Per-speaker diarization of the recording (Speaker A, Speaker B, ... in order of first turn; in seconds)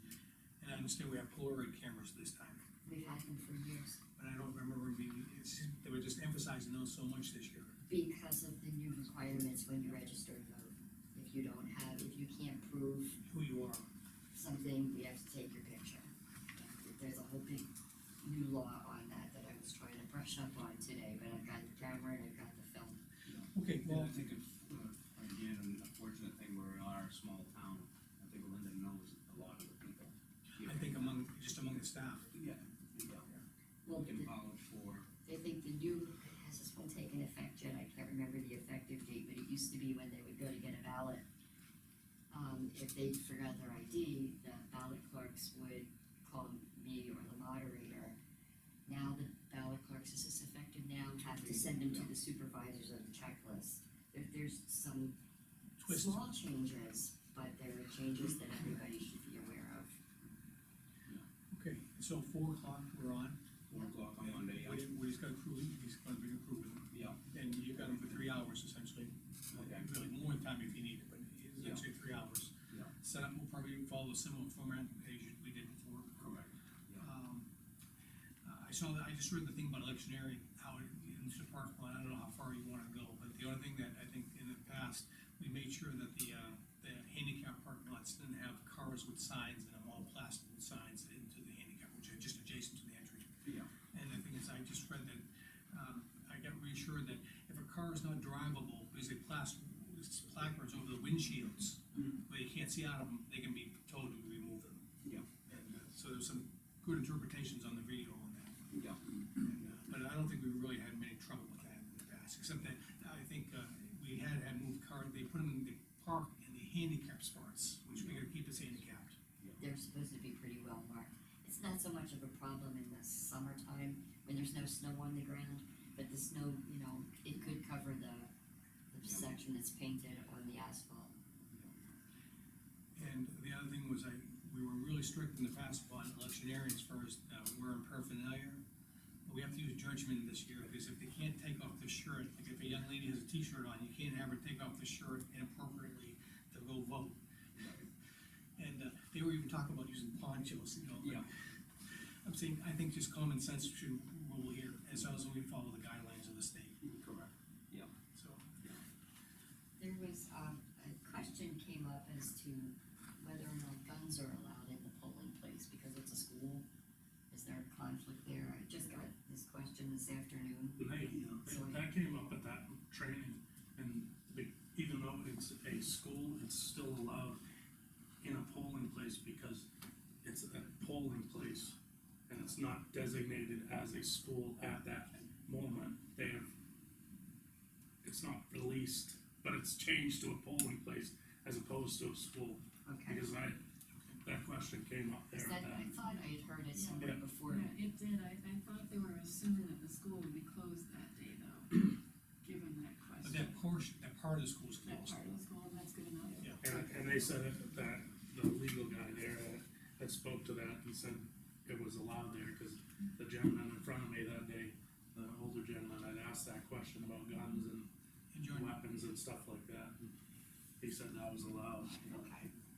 Speaker A: 0.6-2.6, 4.2-7.8, 13.2-13.9, 23.5-24.1, 30.6-32.3, 55.8-56.2, 61.5-63.4, 64.2-76.2, 77.0-77.5, 78.4-104.8, 105.4-108.7, 109.4-119.2, 132.9-138.6, 139.2-147.2, 148.6-151.2, 152.2-156.8, 158.1-158.6, 193.9-194.2, 203.2-205.2, 206.4-207.3, 218.3-218.8
Speaker B: 2.8-4.0, 7.9-13.2, 14.3-17.7, 18.2-23.0, 33.8-34.3, 35.2-41.2, 42.3-48.2, 48.9-55.2, 55.8-60.0, 119.6-128.3, 128.9-131.1, 159.8-166.6, 167.3-171.8, 192.8-193.2, 195.3-197.7, 222.1-222.5
Speaker C: 23.2-31.2, 32.3-33.3, 34.0-35.1, 51.3-52.1, 63.7-64.9, 66.9-67.2, 69.5-69.9, 71.6-71.8, 76.2-77.1, 93.4-93.8, 105.0-105.4, 108.7-109.0, 129.0-129.3, 147.6-147.8, 151.0-151.3, 156.8-157.9
Speaker D: 170.8-177.4, 178.2-179.7, 180.2-181.8, 182.3-186.5, 188.0-193.6, 194.2-195.9, 197.0-197.3, 206.6-217.9, 218.5-220.1, 220.8-222.1
Speaker E: 196.7-203.6, 204.8-206.4